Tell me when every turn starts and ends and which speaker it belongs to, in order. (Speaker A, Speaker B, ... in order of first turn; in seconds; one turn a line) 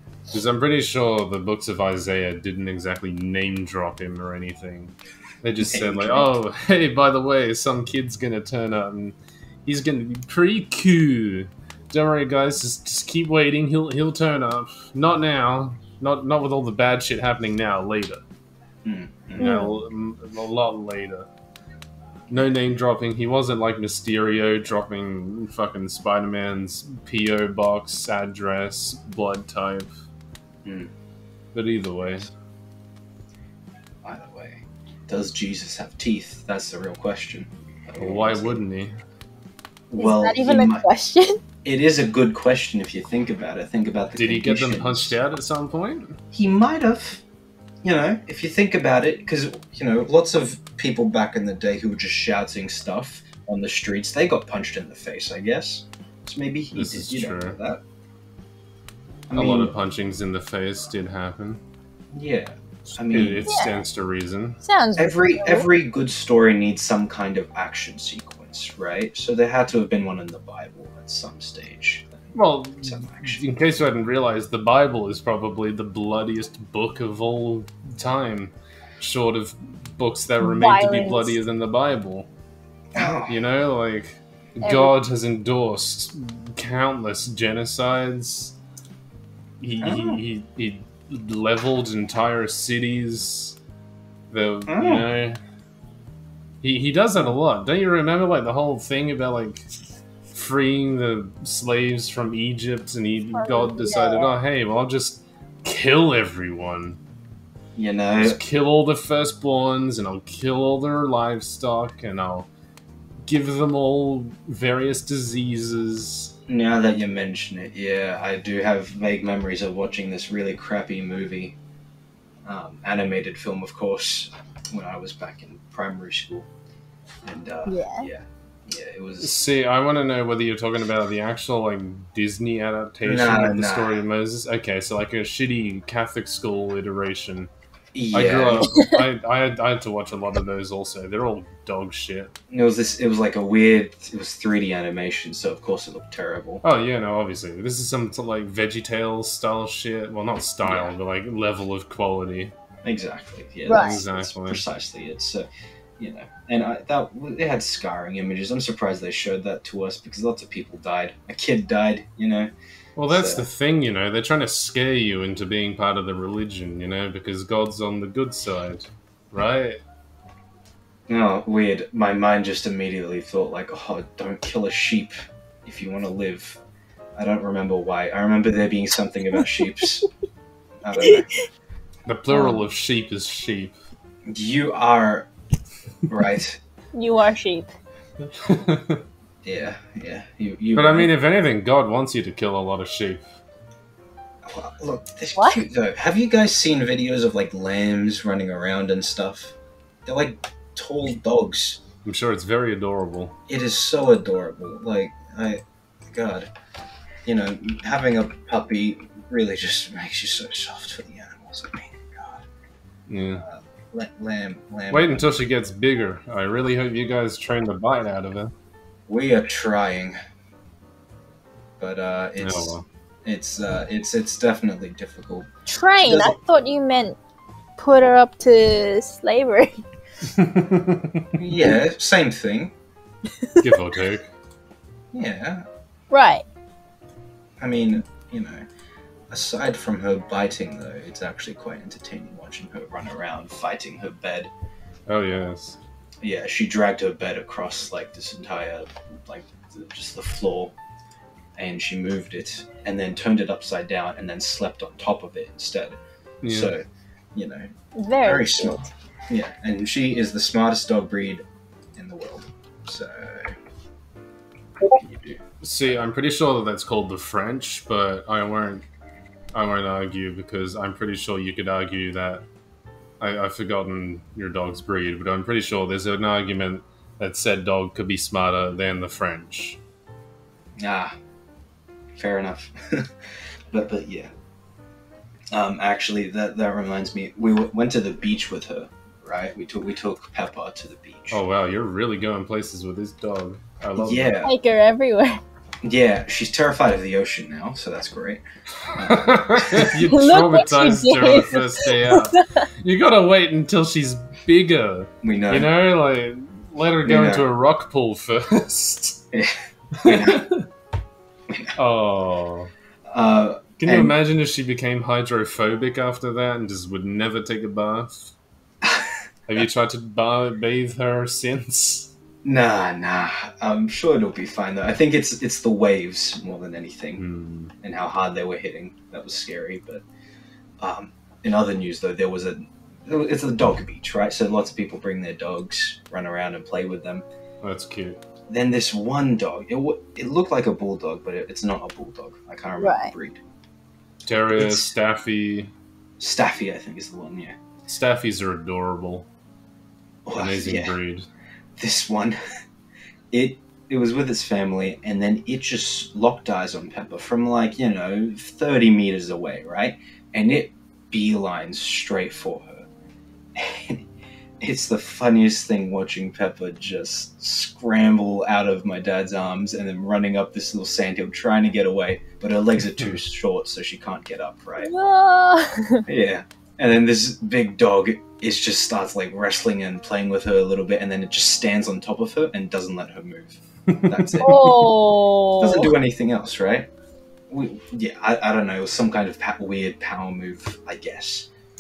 Speaker A: 0.3-18.2
Speaker B: 5.6-6.3
Speaker B: 18.8-19.7
Speaker A: 19.4-21.3
Speaker C: 19.4-19.8
Speaker A: 22.3-29.9
Speaker B: 30.6-30.9
Speaker A: 31.5-32.3
Speaker B: 34.0-38.6
Speaker A: 38.0-39.0
Speaker B: 39.9-40.9
Speaker C: 40.0-41.4
Speaker B: 41.6-45.2
Speaker A: 44.2-46.2
Speaker B: 46.3-47.2
Speaker B: 47.8-57.8
Speaker A: 56.7-57.6
Speaker B: 59.3-59.7
Speaker A: 59.4-61.6
Speaker B: 62.1-63.5
Speaker A: 63.0-64.6
Speaker C: 63.5-63.8
Speaker C: 64.6-65.7
Speaker B: 65.0-72.3
Speaker A: 72.3-82.3
Speaker B: 72.8-73.5
Speaker C: 80.4-81.4
Speaker B: 82.9-83.4
Speaker A: 83.0-88.5
Speaker C: 84.6-84.9
Speaker A: 89.6-93.6
Speaker B: 89.8-90.2
Speaker A: 94.3-95.4
Speaker B: 94.7-95.1
Speaker A: 96.6-99.7
Speaker A: 100.3-107.0
Speaker C: 103.3-104.3
Speaker B: 107.8-108.4
Speaker A: 108.2-112.5
Speaker A: 113.3-116.3
Speaker B: 116.5-121.6
Speaker B: 122.4-126.5
Speaker B: 127.2-129.4
Speaker C: 127.7-128.1
Speaker A: 129.2-137.5
Speaker B: 133.1-134.0
Speaker B: 137.9-138.7
Speaker A: 138.1-142.3
Speaker C: 138.7-139.0
Speaker B: 142.5-146.6
Speaker A: 146.6-152.5
Speaker B: 150.6-150.9
Speaker B: 152.8-155.5
Speaker C: 153.7-154.0
Speaker A: 153.7-154.6
Speaker B: 156.0-162.5
Speaker A: 163.0-169.8
Speaker B: 163.1-163.4
Speaker B: 171.1-176.6
Speaker B: 177.2-180.1
Speaker B: 180.8-181.3
Speaker A: 182.1-183.8
Speaker B: 182.3-182.7
Speaker B: 184.3-185.3
Speaker B: 186.1-186.6
Speaker C: 186.9-187.7
Speaker A: 188.3-189.0
Speaker B: 189.4-191.1
Speaker A: 190.8-193.3
Speaker B: 194.4-201.8
Speaker A: 202.0-203.4
Speaker B: 203.5-206.5
Speaker B: 207.2-212.5
Speaker A: 213.1-213.4
Speaker B: 213.4-215.4
Speaker A: 214.9-218.5
Speaker B: 219.1-220.2
Speaker B: 221.8-226.4
Speaker A: 222.4-222.9
Speaker C: 225.7-227.2
Speaker C: 227.8-229.8
Speaker A: 230.3-231.3
Speaker B: 231.4-232.7
Speaker A: 233.6-234.2
Speaker B: 235.1-235.7
Speaker C: 236.1-236.4
Speaker B: 237.6-238.6
Speaker B: 239.3-244.5
Speaker A: 245.1-245.8
Speaker B: 246.2-250.8
Speaker B: 251.6-256.8
Speaker A: 256.4-256.7
Speaker B: 257.4-257.7
Speaker C: 258.0-258.9
Speaker B: 258.2-261.4
Speaker B: 261.9-263.6
Speaker B: 264.9-265.4
Speaker A: 265.6-268.9
Speaker A: 269.5-272.4
Speaker A: 273.2-279.8
Speaker B: 280.8-281.1
Speaker B: 282.2-284.3
Speaker B: 285.5-291.4
Speaker A: 291.3-294.3
Speaker B: 294.0-294.5
Speaker C: 294.4-295.4
Speaker B: 295.8-298.4
Speaker A: 298.8-309.2
Speaker B: 298.9-300.0
Speaker C: 300.1-302.7
Speaker B: 305.2-305.7
Speaker B: 307.0-307.5
Speaker B: 309.3-310.5
Speaker A: 310.0-310.7
Speaker B: 311.5-311.7
Speaker A: 311.8-312.7
Speaker B: 313.1-314.1
Speaker A: 313.8-318.3
Speaker B: 318.8-319.2
Speaker A: 319.5-322.1
Speaker B: 322.4-327.2
Speaker A: 327.2-327.7
Speaker B: 327.8-330.0
Speaker B: 330.8-337.2
Speaker A: 337.6-338.2
Speaker B: 338.5-343.4
Speaker C: 342.8-343.1
Speaker A: 344.3-345.7
Speaker B: 344.5-344.9
Speaker B: 346.2-347.6
Speaker A: 347.9-349.3
Speaker B: 350.2-350.9
Speaker A: 350.4-351.3
Speaker B: 351.8-352.4
Speaker B: 353.3-362.9
Speaker B: 363.6-364.1
Speaker B: 364.6-374.9
Speaker C: 374.8-376.1
Speaker B: 376.1-384.9
Speaker A: 383.9-384.5
Speaker C: 384.4-385.9
Speaker B: 385.6-386.9
Speaker B: 387.5-391.5